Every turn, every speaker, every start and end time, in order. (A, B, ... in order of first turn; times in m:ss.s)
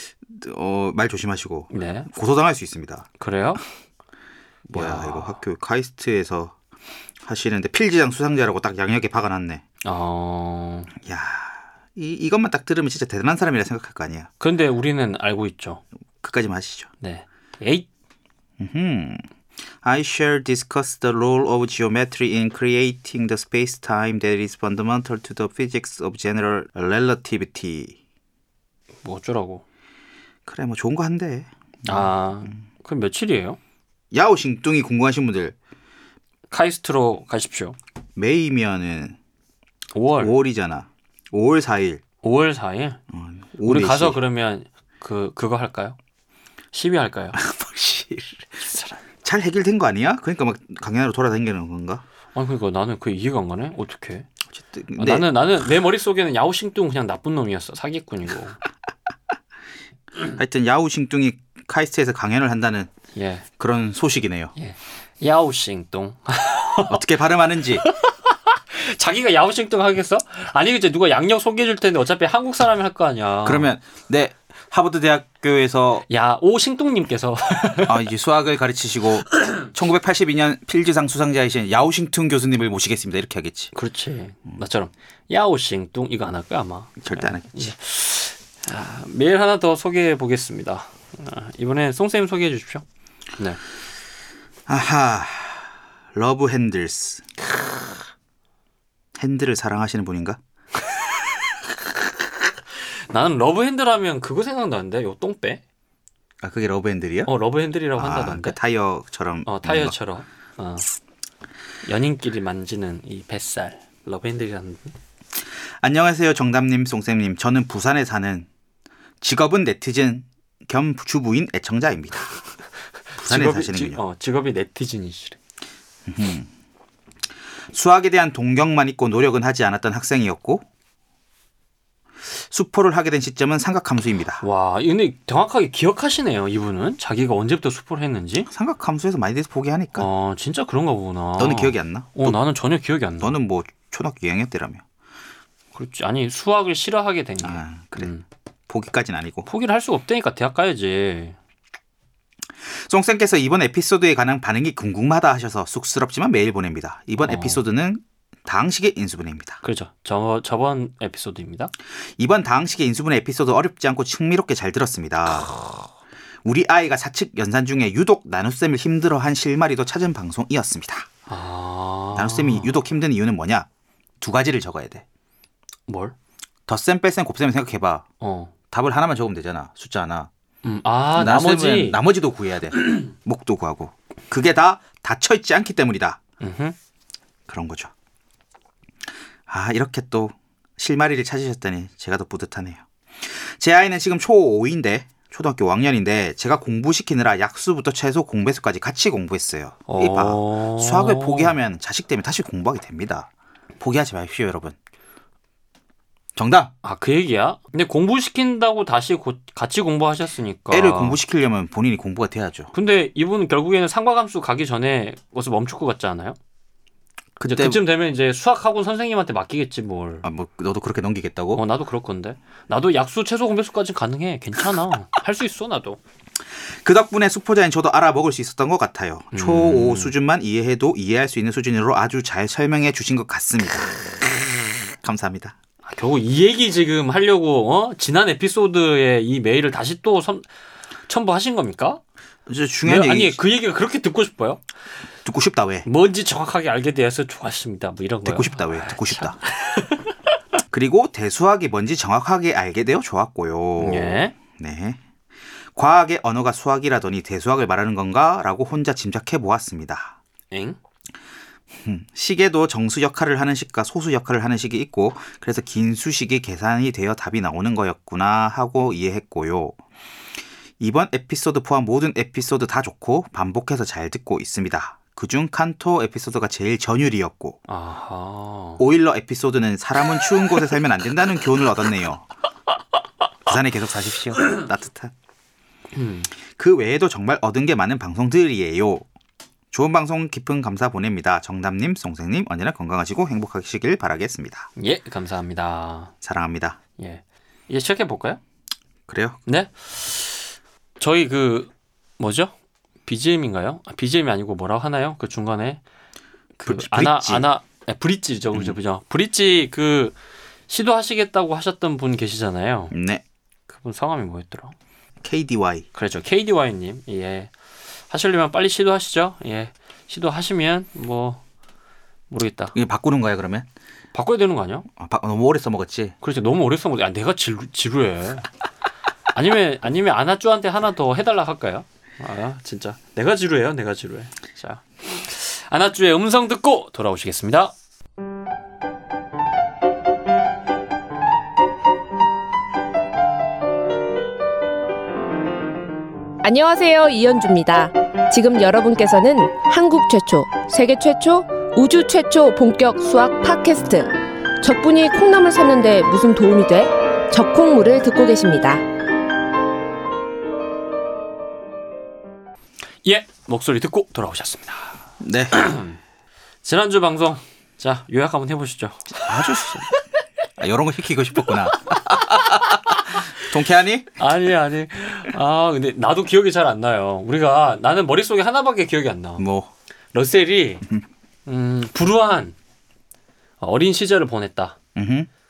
0:00.3-0:03.1 A
0:01.7-0:02.1 B
0:03.2-0:03.6 B
0:04.6-0:05.4 B
0:04.7-0:06.6 A
0:07.2-0:09.6 A
0:09.8-0:10.9 B
0:11.0-0:14.3 A
0:14.4-0:15.8 B
0:16.2-0:16.9 A
0:17.0-0:17.9 B
0:18.6-0:19.2 A
0:19.8-0:28.0 A
0:29.0-0:29.6 B
0:30.4-0:32.1 A
0:31.8-0:33.6 B
0:34.1-0:35.5 A
0:36.5-0:37.8 B
0:38.2-0:39.2 A
0:39.9-0:40.3 B
0:40.2-0:42.0 A
0:42.2-0:43.0 B
0:43.1-0:44.2 A
0:43.6-0:46.0 B
0:46.7-0:47.4 B
0:47.3-0:48.6 A
0:48.6-0:49.0 B
0:49.2-0:52.0 A
0:52.3-0:54.3 B
0:54.5-0:55.3 A
0:55.0-0:58.6 B
1:00.2-1:02.9 A
1:03.1-1:03.4 B
1:03.6-1:04.5 A
1:04.6-1:07.0 B
1:06.9-1:07.8 A
1:07.8-1:13.7 B
1:13.4-1:16.0 A
1:16.1-1:18.0 B
1:17.8-1:23.7 A
1:23.7-1:32.8 B
1:27.0-1:27.7 A
1:34.7-1:37.3 A
1:39.2-1:40.4 A
1:43.1-1:45.6 B
1:46.4-1:47.3 A
1:47.2-1:48.6 B
1:48.0-1:49.9 A
1:49.4-1:50.9 B
1:51.8-1:54.9 B
1:55.8-1:58.5 A
1:59.2-2:02.3 A
2:03.2-2:04.0 A
2:03.2-2:05.4 B
2:06.1-2:06.5 A
2:07.7-2:10.6 A
2:12.3-2:14.4 A
2:14.4-2:18.5 B
2:18.5-2:20.1 A
2:20.0-2:23.4 B
2:21.4-2:22.4 A
2:23.2-2:24.8 A
2:25.7-2:28.2 B
2:27.4-2:28.1 A
2:28.7-2:29.5 A
2:29.4-2:31.4 B
2:32.7-2:39.6 A
2:37.2-2:37.6 B
2:39.6-2:41.7 B
2:42.2-2:45.8 A
2:46.4-2:51.1 A
2:51.3-2:52.7 B
2:52.1-2:53.7 A
2:54.2-2:55.0 A
2:55.9-2:56.1 B
2:56.7-2:58.0 A
2:58.2-2:58.5 B
2:58.7-3:00.3 A
3:00.6-3:02.0 B
3:01.1-3:06.2 A
3:06.4-3:06.7 B
3:07.5-3:07.9 A
3:09.5-3:24.7 A
3:19.9-3:21.5 B
3:26.4-3:26.7 A
3:26.8-3:31.2 B
3:30.7-3:32.7 A
3:32.7-3:36.4 B
3:37.4-3:37.8 A
3:37.4-3:40.2 B
3:40.2-3:41.6 A
3:41.5-3:46.0 B
3:46.8-3:54.1 A
3:49.3-3:50.1 B
3:55.0-3:55.5 A
3:55.8-4:00.4 B
4:01.1-4:02.0 B
4:02.5-4:03.4 A
4:02.8-4:04.6 B
4:05.2-4:05.8 A
4:05.8-4:10.1 B
4:08.2-4:09.4 A
4:10.7-4:15.0 A
4:13.8-4:14.3 B
4:15.7-4:20.2 A
4:20.5-4:20.8 B
4:21.8-4:29.8 A
4:30.8-4:37.6 A
4:37.7-4:38.8 B
4:38.8-4:42.2 A
4:43.4-4:45.1 A
4:45.9-4:46.3 B
4:46.5-4:49.0 A
4:49.7-4:54.7 A
4:54.8-4:56.1 B
4:56.2-4:56.8 A
4:57.0-4:58.4 B
4:59.1-4:59.4 A
4:59.4-5:00.4 B
5:01.0-5:02.5 B
5:03.0-5:05.8 B
5:06.6-5:10.2 B
5:06.6-5:07.4 A
5:10.7-5:12.9 B
5:12.9-5:13.2 A
5:13.7-5:14.7 B
5:15.2-5:15.8 A
5:15.9-5:17.5 B
5:18.1-5:21.4 B
5:22.3-5:22.7 B
5:22.7-5:23.7 A
5:24.1-5:24.9 B
5:25.0-5:26.1 A
5:26.2-5:28.5 B
5:29.3-5:37.7 B
5:46.4-5:58.8 C
6:03.0-6:05.0 B
6:05.2-6:05.6 A
6:05.5-6:06.0 B
6:06.6-6:10.0 B
6:09.2-6:09.8 A
6:10.6-6:14.1 A
6:14.2-6:19.4 B
6:19.4-6:19.7 A
6:20.1-6:20.8 B
6:21.4-6:22.6 B
6:23.6-6:24.8 B
6:25.0-6:25.3 A